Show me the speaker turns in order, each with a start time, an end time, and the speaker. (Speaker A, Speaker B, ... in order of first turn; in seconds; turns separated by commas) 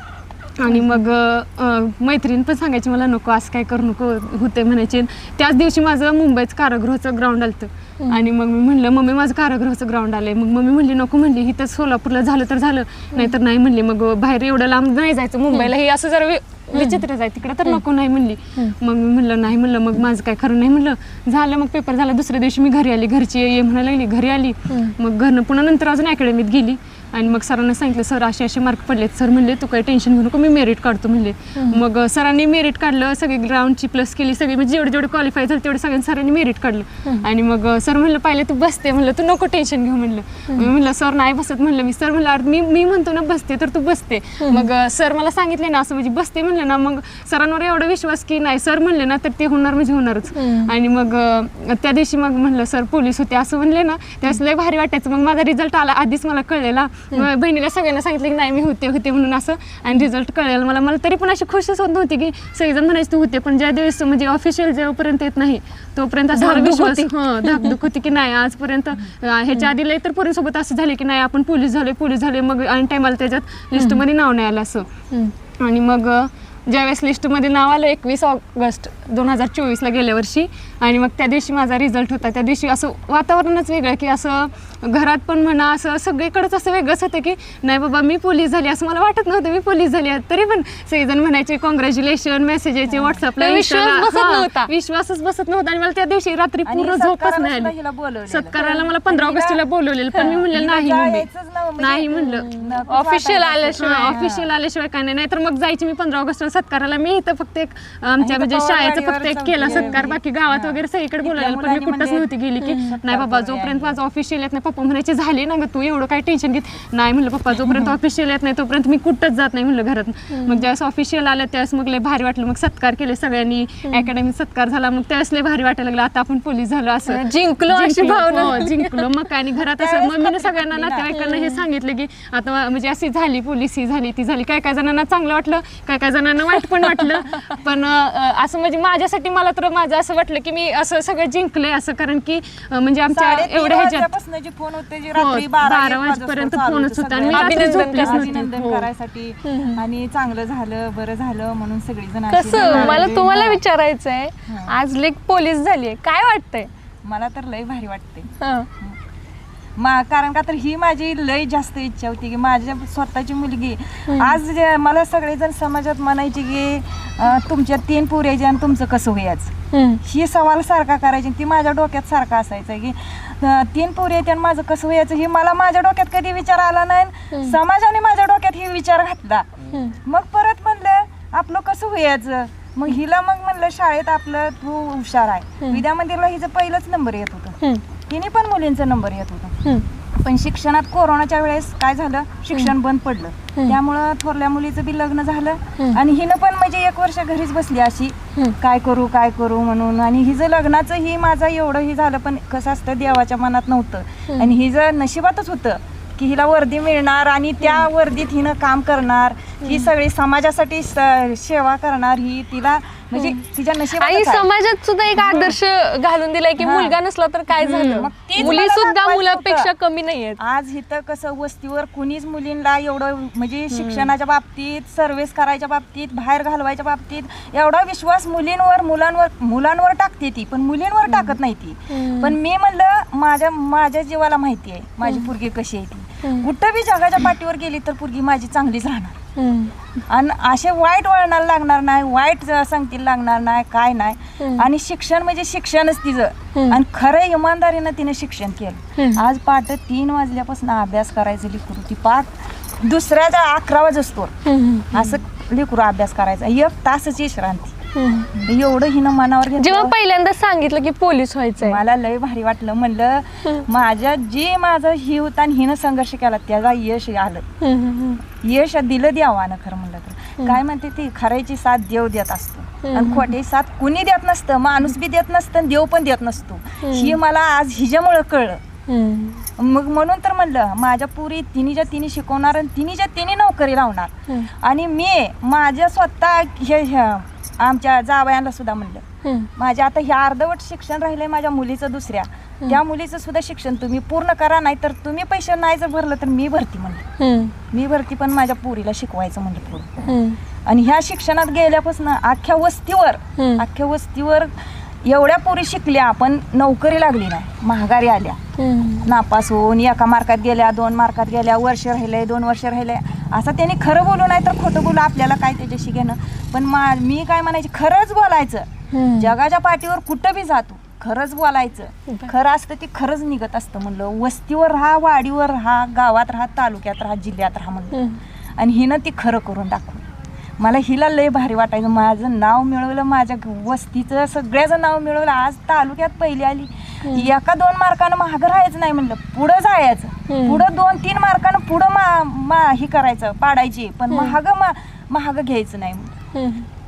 Speaker A: 0.6-74.9, Speaker B: 0.7-1.1, Speaker B: 8.0-8.3, Speaker B: 16.7-17.0, Speaker B: 24.7-24.9, Speaker B: 31.6-31.8, Speaker B: 44.4-44.7, Speaker B: 50.3-50.7, Speaker B: 66.3-67.8, Speaker B: 73.8-74.0, Speaker A: 75.6-97.7, Speaker C: 92.9-93.2, Speaker B: 93.4-94.7, Speaker C: 96.7-99.6, Speaker A: 98.3-101.3, Speaker B: 98.6-98.8, Speaker C: 100.2-104.5, Speaker A: 101.8-102.6, Speaker B: 102.2-104.2, Speaker A: 103.8-144.1, Speaker C: 108.2-112.3, Speaker B: 109.7-110.0, Speaker B: 112.6-112.9, Speaker C: 112.8-114.0, Speaker B: 120.3-120.7, Speaker B: 127.1-129.1, Speaker C: 128.4-128.7, Speaker C: 129.8-131.1, Speaker B: 131.1-131.6, Speaker C: 143.1-153.6, Speaker A: 145.2-148.9, Speaker B: 147.3-148.4, Speaker B: 149.4-149.8, Speaker B: 152.3-156.7, Speaker A: 152.6-153.0, Speaker C: 154.5-154.8, Speaker C: 157.1-159.0, Speaker B: 158.4-158.7, Speaker C: 159.8-189.6, Speaker B: 164.1-164.4, Speaker B: 169.7-170.0, Speaker B: 177.3-177.6, Speaker B: 179.7-180.0, Speaker C: 190.2-214.5, Speaker B: 204.3-204.6, Speaker B: 209.6-209.9, Speaker B: 213.9-220.4, Speaker C: 215.1-215.6, Speaker C: 216.6-217.0, Speaker C: 217.6-219.7, Speaker A: 217.6-218.5, Speaker C: 220.4-239.2, Speaker A: 223.7-224.1, Speaker B: 231.9-232.4, Speaker B: 236.2-236.5, Speaker B: 239.4-239.7, Speaker C: 240.1-254.3, Speaker B: 244.4-244.7, Speaker B: 246.6-246.8, Speaker B: 248.9-249.2, Speaker B: 254.4-255.2, Speaker C: 254.9-257.8, Speaker B: 257.9-258.3, Speaker C: 258.3-259.9, Speaker B: 259.6-261.8, Speaker C: 261.6-267.4, Speaker B: 267.6-268.2, Speaker C: 268.4-278.6, Speaker B: 272.8-273.3, Speaker B: 276.8-277.2, Speaker B: 278.9-279.4, Speaker C: 279.6-289.1, Speaker B: 289.2-289.5, Speaker C: 289.6-297.1, Speaker B: 297.2-297.5, Speaker C: 297.7-300.1, Speaker B: 300.1-300.4, Speaker C: 300.7-308.4, Speaker B: 303.4-303.6, Speaker B: 308.6-309.1, Speaker C: 309.0-328.0, Speaker B: 318.9-319.3, Speaker B: 327.9-328.2, Speaker C: 328.6-330.0, Speaker C: 330.6-346.2, Speaker B: 340.3-340.6, Speaker B: 344.1-344.4, Speaker B: 346.3-346.7